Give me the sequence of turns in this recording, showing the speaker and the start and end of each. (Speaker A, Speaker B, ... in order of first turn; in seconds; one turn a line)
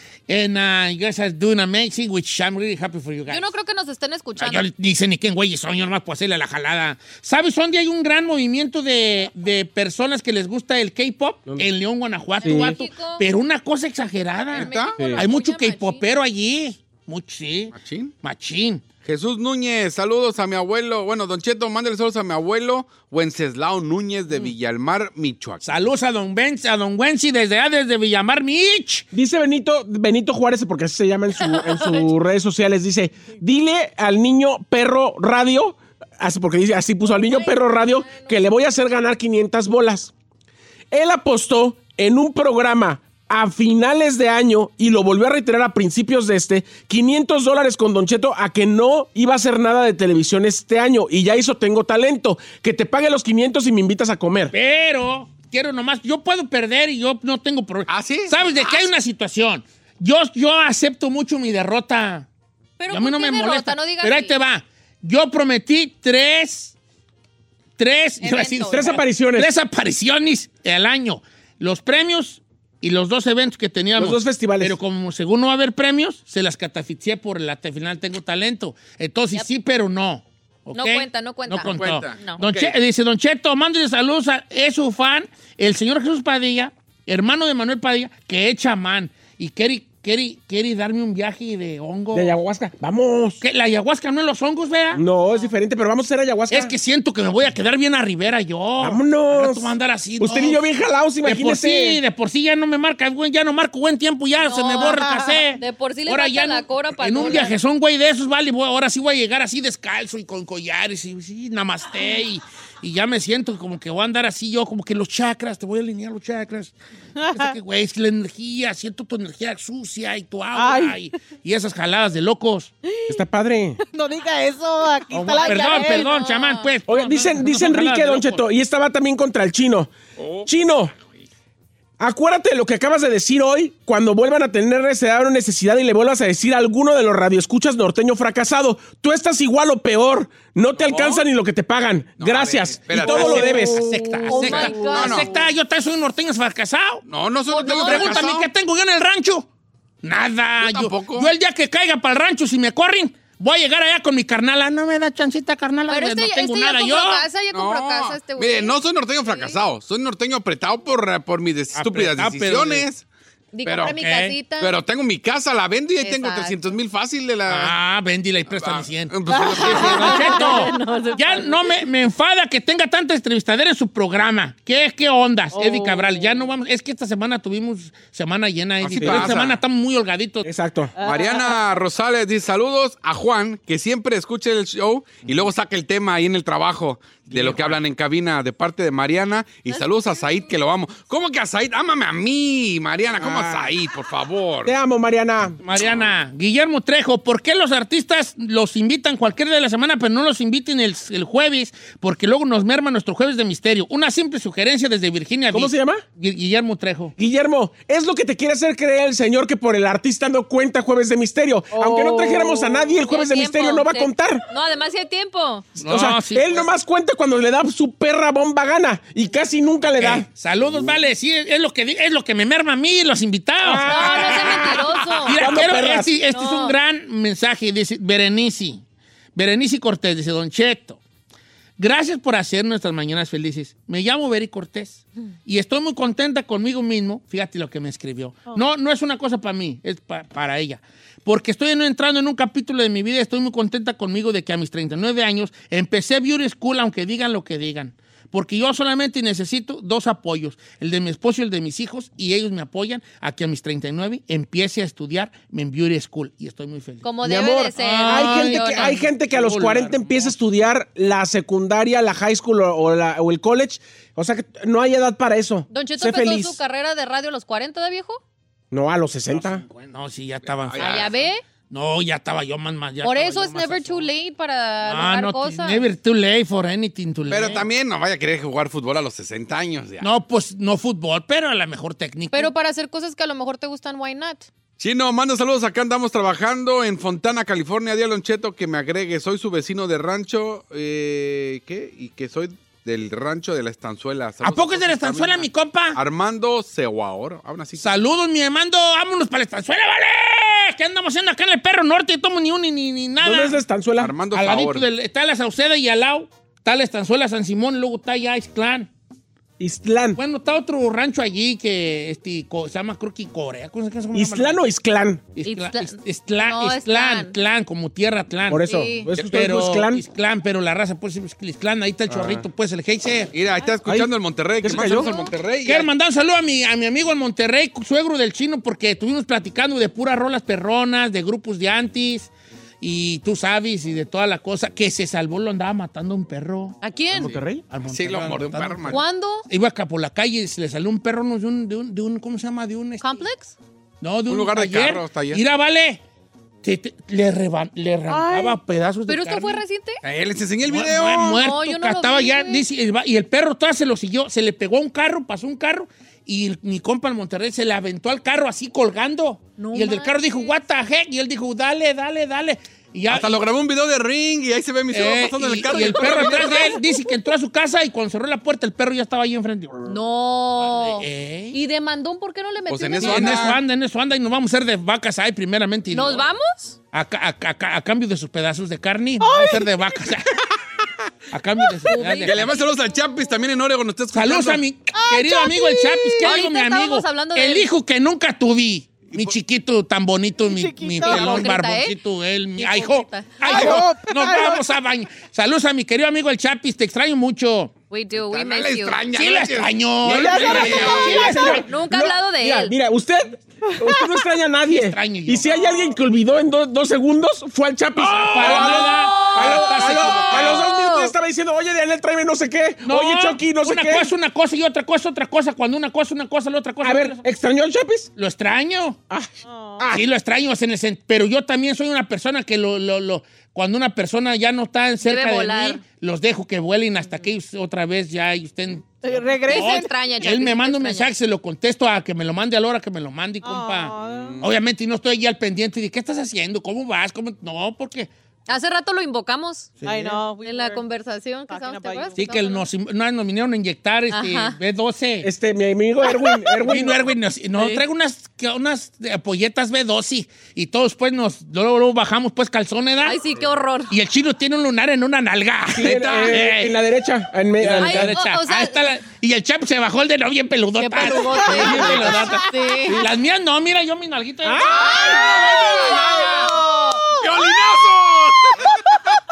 Speaker A: 0.3-3.4
Speaker B: 3.3-4.7
Speaker A: 4.4-18.8
Speaker C: 11.4-11.7
Speaker C: 12.4-12.8
Speaker B: 12.4-13.2
Speaker B: 14.5-16.0
Speaker D: 14.6-15.0
Speaker C: 15.0-15.2
Speaker D: 17.7-18.1
Speaker D: 19.0-25.6
Speaker A: 25.6-29.0
Speaker C: 29.1-40.1
Speaker B: 31.4-32.1
Speaker B: 37.1-38.4
Speaker C: 40.9-54.5
Speaker A: 54.5-62.3
Speaker D: 57.9-58.9
Speaker B: 62.8-64.3
Speaker A: 62.9-66.7
Speaker A: 67.8-92.3
Speaker B: 68.2-69.0
Speaker C: 68.7-69.5
Speaker C: 74.0-74.8
Speaker B: 80.7-82.4
Speaker D: 81.7-82.7
Speaker C: 92.1-93.4
Speaker A: 93.4-95.0
Speaker C: 94.9-96.7
Speaker A: 96.5-100.6
Speaker C: 98.8-102.0
Speaker A: 101.2-116.7
Speaker B: 104.4-105.0
Speaker E: 105.0-105.4
Speaker B: 105.6-107.5
Speaker E: 117.2-117.5
Speaker A: 117.3-122.7
Speaker E: 120.5-121.0
Speaker E: 122.9-123.2
Speaker C: 123.1-123.8
Speaker E: 123.8-126.2
Speaker A: 125.1-128.4
Speaker B: 125.4-126.7
Speaker C: 126.9-129.9
Speaker D: 130.2-131.2
Speaker C: 130.4-130.9
Speaker C: 132.0-143.9
Speaker A: 140.9-141.2
Speaker D: 142.2-143.4
Speaker A: 142.9-147.0
Speaker B: 144.0-145.4
Speaker E: 144.3-145.1
Speaker D: 144.9-145.3
Speaker D: 147.1-148.5
Speaker B: 147.5-148.3
Speaker A: 147.7-149.5
Speaker A: 150.0-157.2
Speaker D: 150.6-151.3
Speaker B: 155.9-159.6
Speaker D: 157.5-163.1
Speaker A: 161.7-162.8
Speaker B: 163.5-164.8
Speaker D: 163.6-164.0
Speaker A: 163.8-164.4
Speaker D: 164.6-167.7
Speaker B: 166.0-166.7
Speaker A: 167.5-180.4
Speaker D: 168.5-170.2
Speaker E: 169.3-171.5
Speaker B: 169.7-171.4
Speaker E: 175.5-176.5
Speaker D: 178.8-179.6
Speaker C: 179.0-179.3
Speaker C: 180.4-180.9
Speaker E: 181.0-181.7
Speaker D: 181.0-194.7
Speaker A: 187.3-187.8
Speaker B: 189.7-190.5
Speaker C: 193.2-193.8
Speaker C: 194.6-195.6
Speaker A: 195.6-207.1
Speaker C: 205.5-206.0
Speaker C: 207.2-214.4
Speaker E: 211.7-212.8
Speaker B: 213.0-215.7
Speaker A: 215.8-216.7
Speaker C: 215.8-220.3
Speaker A: 220.0-228.8
Speaker C: 223.6-226.2
Speaker B: 223.8-225.6
Speaker B: 226.3-226.8
Speaker A: 229.3-231.0
Speaker A: 231.8-257.1
Speaker B: 257.0-259.0
Speaker C: 257.2-266.6
Speaker A: 257.8-260.4
Speaker B: 265.7-268.2
Speaker C: 268.7-269.6
Speaker A: 269.3-274.1
Speaker D: 270.5-271.3
Speaker B: 270.8-271.4
Speaker B: 273.0-275.8
Speaker A: 274.8-277.7
Speaker D: 277.3-280.1
Speaker A: 280.0-282.5
Speaker B: 282.3-284.5
Speaker D: 284.8-297.9
Speaker A: 294.4-296.0
Speaker A: 297.8-303.6
Speaker C: 303.2-304.2
Speaker D: 304.0-304.8
Speaker A: 304.3-308.9
Speaker C: 309.6-310.2
Speaker A: 310.1-314.6
Speaker C: 314.1-315.3
Speaker A: 315.4-323.3
Speaker B: 315.4-317.3
Speaker C: 318.5-320.0
Speaker B: 318.6-319.1
Speaker C: 322.1-322.4
Speaker D: 323.3-325.9
Speaker C: 323.8-325.2
Speaker B: 324.7-325.3
Speaker A: 325.6-332.3
Speaker A: 332.8-336.8
Speaker B: 336.8-337.4
Speaker C: 337.1-337.6
Speaker A: 337.7-343.2
Speaker D: 337.9-339.0
Speaker B: 338.9-339.4
Speaker B: 343.0-343.6
Speaker A: 344.0-346.0
Speaker D: 344.3-345.4
Speaker A: 346.6-349.6
Speaker E: 348.1-348.6
Speaker B: 349.1-350.0
Speaker D: 350.0-351.4
Speaker A: 350.6-363.4
Speaker B: 351.2-352.6
Speaker B: 359.6-360.5
Speaker D: 363.1-366.8
Speaker A: 364.9-369.9
Speaker B: 369.9-373.6
Speaker A: 370.6-371.6
Speaker D: 372.7-373.6
Speaker A: 373.0-376.2
Speaker B: 375.9-376.8
Speaker A: 376.9-380.4
Speaker E: 379.2-379.8
Speaker A: 381.3-382.5
Speaker B: 381.9-382.7
Speaker D: 382.2-384.6
Speaker A: 384.1-397.7
Speaker E: 384.9-386.4
Speaker B: 386.2-387.7
Speaker D: 389.1-389.4
Speaker E: 390.4-391.4
Speaker B: 391.0-391.9
Speaker B: 392.6-393.7
Speaker E: 393.4-394.6
Speaker D: 393.5-393.8
Speaker B: 397.9-399.0
Speaker D: 398.2-401.1
Speaker A: 399.1-401.7
Speaker E: 400.1-401.3
Speaker C: 400.9-414.1
Speaker B: 401.5-402.7
Speaker E: 403.7-404.0
Speaker A: 404.7-405.5
Speaker A: 408.0-410.7
Speaker B: 410.0-411.1
Speaker A: 412.8-417.2
Speaker C: 416.8-418.1
Speaker A: 418.1-419.0
Speaker C: 419.1-420.0
Speaker E: 419.4-419.9
Speaker A: 419.9-438.1
Speaker B: 425.0-425.8
Speaker E: 429.0-429.9
Speaker B: 429.5-431.1
Speaker E: 433.4-434.4
Speaker D: 434.0-434.5
Speaker B: 438.5-439.7
Speaker A: 439.8-440.2
Speaker E: 439.8-440.8
Speaker B: 440.4-442.6
Speaker E: 441.5-442.6
Speaker A: 442.1-445.3
Speaker B: 444.1-444.6
Speaker C: 445.2-447.1
Speaker A: 446.6-453.2
Speaker B: 447.6-447.8
Speaker B: 453.0-453.9
Speaker A: 453.9-456.7
Speaker C: 455.7-458.2
Speaker D: 455.8-456.4
Speaker A: 457.6-464.9
Speaker B: 457.8-458.8
Speaker B: 460.8-463.0
Speaker C: 461.6-461.9
Speaker E: 462.0-462.7
Speaker E: 464.5-467.6
Speaker D: 464.6-466.6
Speaker B: 465.2-467.0
Speaker D: 467.2-468.8